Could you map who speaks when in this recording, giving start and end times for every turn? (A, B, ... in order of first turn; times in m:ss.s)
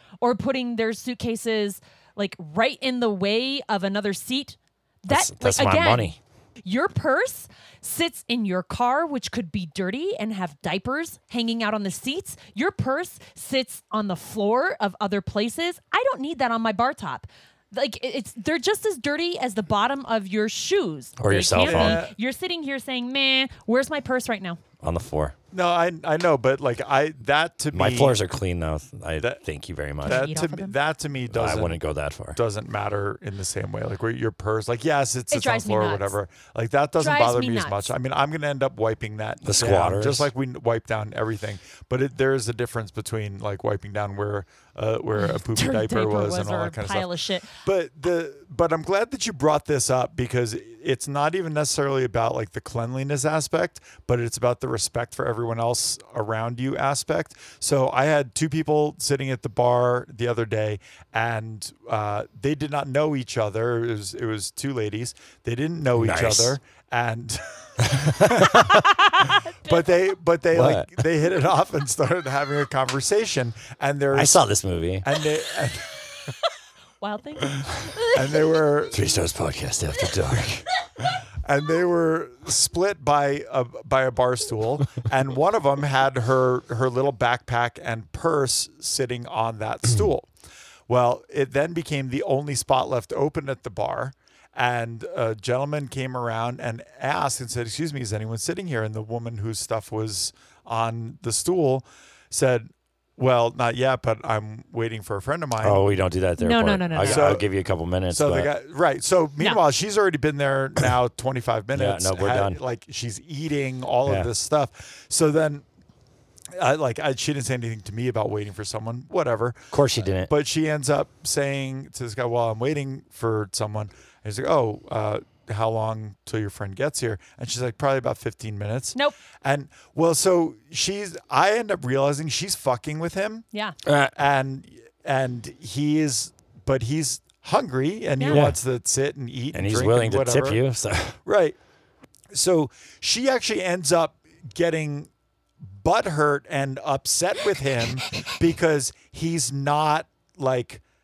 0:00.2-0:24.6 A
0:05.1-0:06.2 B
0:21.2-0:22.0 B
0:21.6-0:22.1 C
0:24.8-0:25.3 B
0:25.5-0:28.2 C
0:27.7-0:30.3 B
0:29.2-0:29.4 C
0:30.0-1:08.7 C
0:30.0-0:30.8 A
0:31.3-0:32.4 B
0:35.3-0:36.2 A
0:37.0-0:37.9 A
0:39.4-0:40.3 B
0:45.2-0:47.6 A
1:05.9-1:06.6 B
1:07.9-1:08.8 B
1:08.9-1:09.8 A
1:09.6-1:14.5 C
1:10.5-1:11.0 B
1:14.1-1:15.1 B
1:15.0-1:16.1 C
1:17.0-1:18.2 A
1:18.1-1:19.0 C
1:18.9-1:20.7 B
1:21.4-1:30.3 C
1:30.9-1:45.9 C
1:45.6-1:48.5 B
1:46.4-1:47.4 A
1:47.0-1:47.5 C
1:48.1-1:55.6 C
1:51.7-1:52.6 B
1:54.0-1:54.3 B
1:56.6-2:13.5 C
1:59.7-2:00.3 B
2:13.9-2:14.1 B
2:14.2-2:20.6 C
2:18.2-2:18.4 A
2:18.3-2:18.6 B
2:19.5-2:21.2 B
2:21.2-2:21.6 C
2:22.3-2:25.1 C
2:25.7-2:30.8 C